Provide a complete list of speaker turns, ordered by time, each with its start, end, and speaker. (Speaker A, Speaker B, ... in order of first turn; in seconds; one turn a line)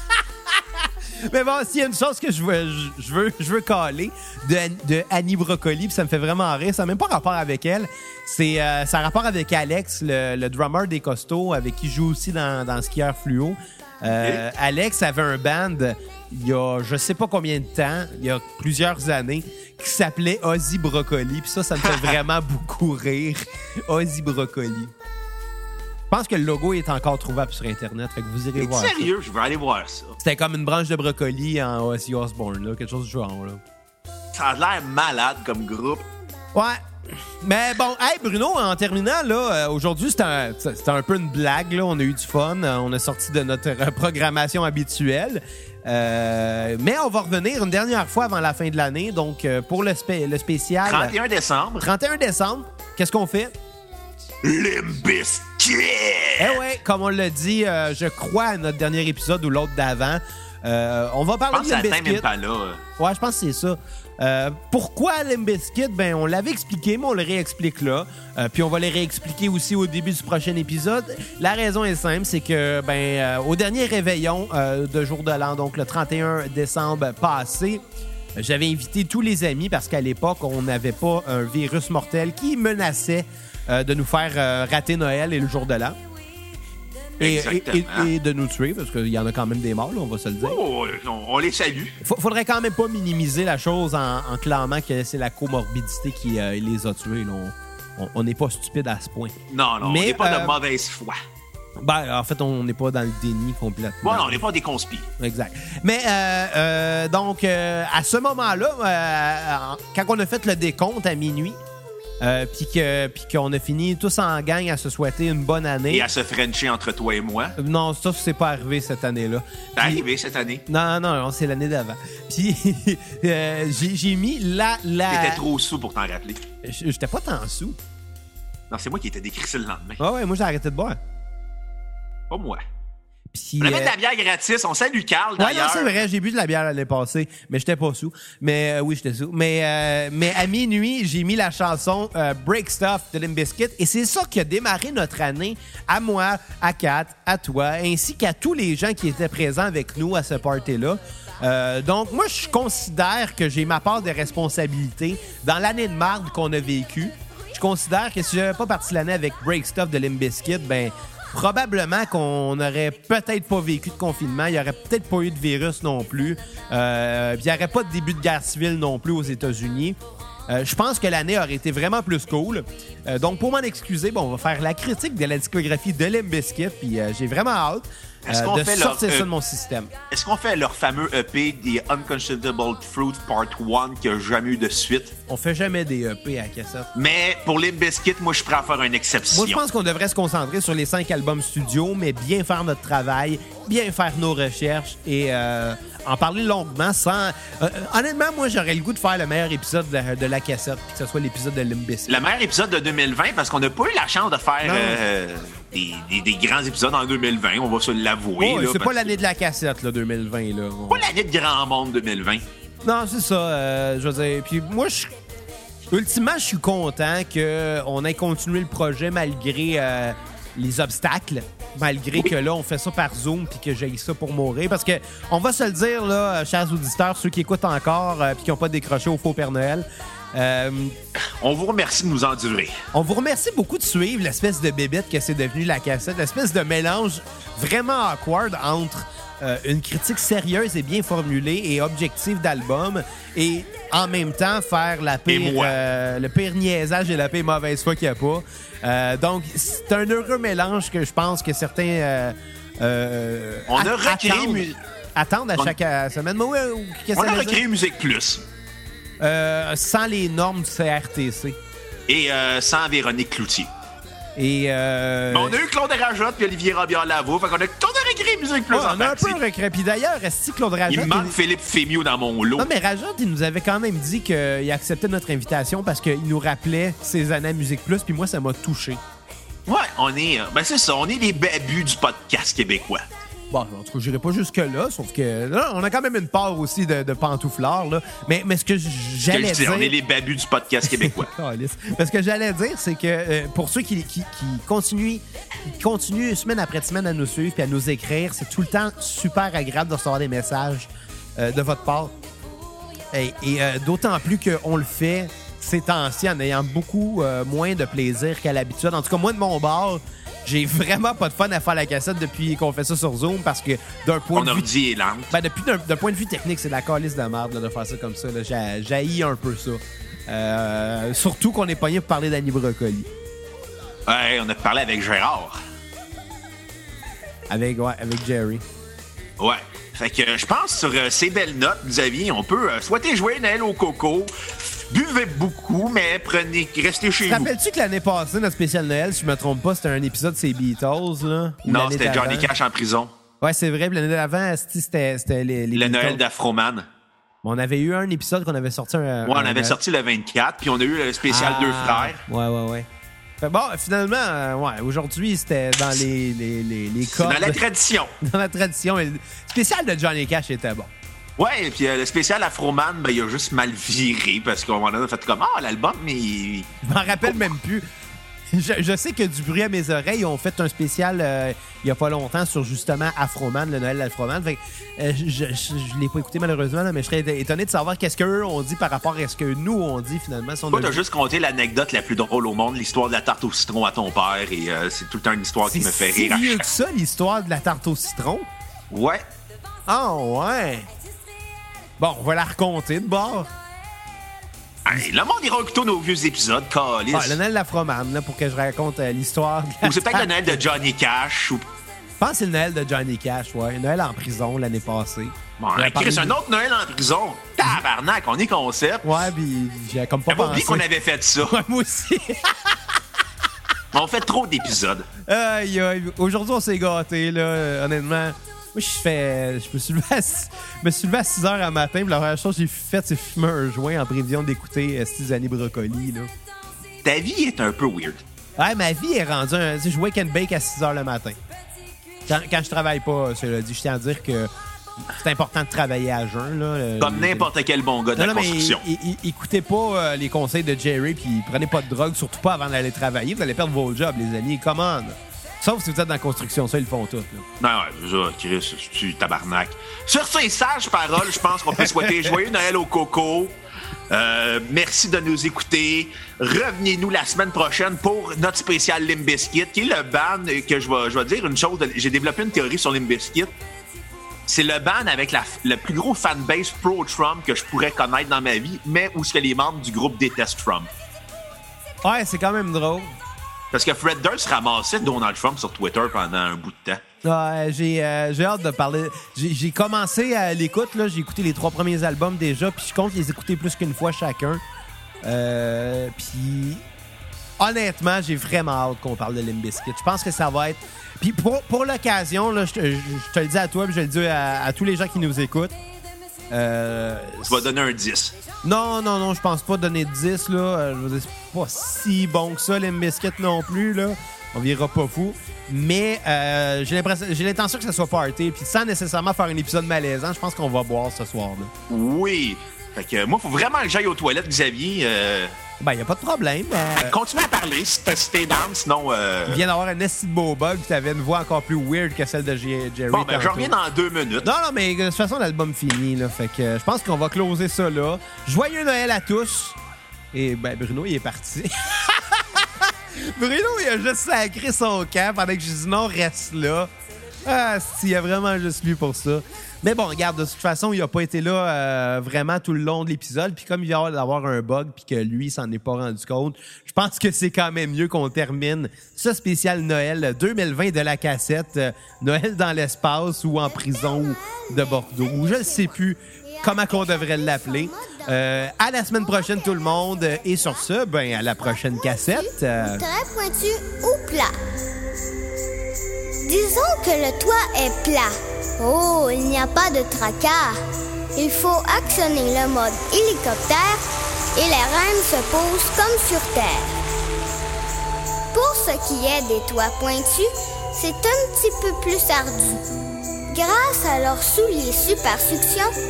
Speaker A: 1.2-24.9
Speaker B: 14.1-14.4
Speaker A: 26.1-29.1
Speaker B: 28.6-30.1
Speaker A: 30.2-33.6
Speaker B: 34.3-36.0
Speaker A: 36.5-36.8
Speaker A: 37.4-51.1
Speaker B: 50.8-51.9
Speaker A: 51.8-53.5
Speaker B: 54.4-56.6
Speaker A: 56.4-62.2
Speaker B: 61.5-62.8
Speaker A: 63.0-77.8
Speaker A: 78.3-86.0
Speaker B: 87.2-88.1
Speaker A: 87.2-90.6
Speaker B: 90.4-92.0
Speaker A: 92.0-100.6
Speaker B: 99.5-101.2
Speaker A: 101.8-104.4
Speaker B: 104.0-105.1
Speaker A: 105.2-111.6
Speaker A: 112.2-116.1
Speaker B: 115.9-117.5
Speaker A: 117.6-120.0
Speaker B: 119.8-120.6
Speaker A: 120.7-125.4
Speaker B: 125.1-126.4
Speaker A: 126.6-127.8
Speaker B: 128.7-130.0
Speaker A: 130.0-131.0
Speaker B: 132.3-132.6
Speaker A: 133.3-133.9
Speaker B: 133.6-136.0
Speaker A: 135.4-170.0
Speaker A: 170.5-179.9
Speaker B: 178.2-179.3
Speaker B: 180.1-185.1
Speaker A: 185.3-186.9
Speaker B: 186.9-189.6
Speaker A: 189.3-202.2
Speaker B: 202.1-209.1
Speaker A: 204.6-205.0
Speaker A: 208.4-211.1
Speaker B: 210.9-212.4
Speaker A: 212.8-215.1
Speaker A: 215.9-230.9
Speaker B: 231.2-232.8
Speaker A: 232.9-257.6
Speaker B: 245.3-245.8
Speaker B: 253.7-254.8
Speaker B: 257.1-258.4
Speaker A: 259.2-261.6
Speaker B: 262.1-263.7
Speaker A: 264.4-265.6
Speaker B: 265.3-269.4
Speaker A: 268.7-271.3
Speaker B: 270.9-272.7
Speaker A: 272.6-279.0
Speaker B: 279.6-283.1
Speaker A: 283.5-289.9
Speaker B: 289.3-291.3
Speaker A: 290.9-295.2
Speaker A: 295.8-302.1
Speaker A: 303.1-314.7
Speaker B: 314.3-315.3
Speaker A: 315.3-323.1
Speaker B: 324.1-325.6
Speaker A: 327.5-328.6
Speaker B: 329.4-337.5
Speaker A: 337.3-342.5
Speaker B: 341.6-343.1
Speaker A: 343.4-346.2
Speaker B: 345.7-346.9
Speaker A: 347.4-349.8
Speaker B: 349.2-352.2
Speaker A: 351.3-352.9
Speaker A: 353.4-357.6
Speaker B: 357.1-358.1
Speaker A: 358.2-360.9
Speaker B: 361.4-367.4
Speaker A: 366.8-367.9
Speaker A: 368.5-381.0
Speaker B: 380.7-386.6
Speaker A: 385.6-388.4
Speaker B: 388.9-389.2
Speaker A: 389.9-390.9
Speaker A: 392.0-393.5
Speaker B: 394.9-397.4
Speaker A: 397.1-400.6
Speaker B: 399.8-401.6
Speaker A: 402.2-406.4
Speaker B: 405.6-409.1
Speaker A: 409.0-410.9
Speaker B: 410.3-411.5
Speaker A: 411.4-412.8
Speaker B: 413.9-415.1
Speaker A: 415.3-426.3
Speaker B: 427.0-428.2
Speaker A: 428.6-431.4
Speaker A: 432.3-434.5
Speaker A: 435.1-437.5
Speaker B: 437.0-438.8
Speaker A: 438.1-447.4
Speaker B: 447.6-453.6
Speaker A: 451.9-452.2
Speaker B: 454.1-463.5
Speaker B: 464.5-470.9
Speaker A: 472.0-473.1
Speaker B: 473.7-477.0
Speaker A: 477.2-484.6
Speaker A: 485.2-486.8
Speaker A: 487.6-495.8
Speaker A: 496.5-497.7
Speaker B: 497.5-498.3
Speaker A: 498.6-511.7
Speaker B: 511.9-515.5
Speaker A: 515.8-517.2
Speaker B: 517.0-519.6
Speaker A: 519.5-523.7
Speaker B: 523.1-524.5
Speaker A: 524.4-529.8
Speaker A: 530.3-536.9
Speaker A: 537.4-563.0
Speaker C: 556.6-558.2
Speaker C: 562.2-564.5
Speaker C: 566.4-570.8
Speaker C: 571.3-574.0
Speaker C: 574.5-576.9
Speaker C: 578.5-582.8
Speaker C: 583.5-585.9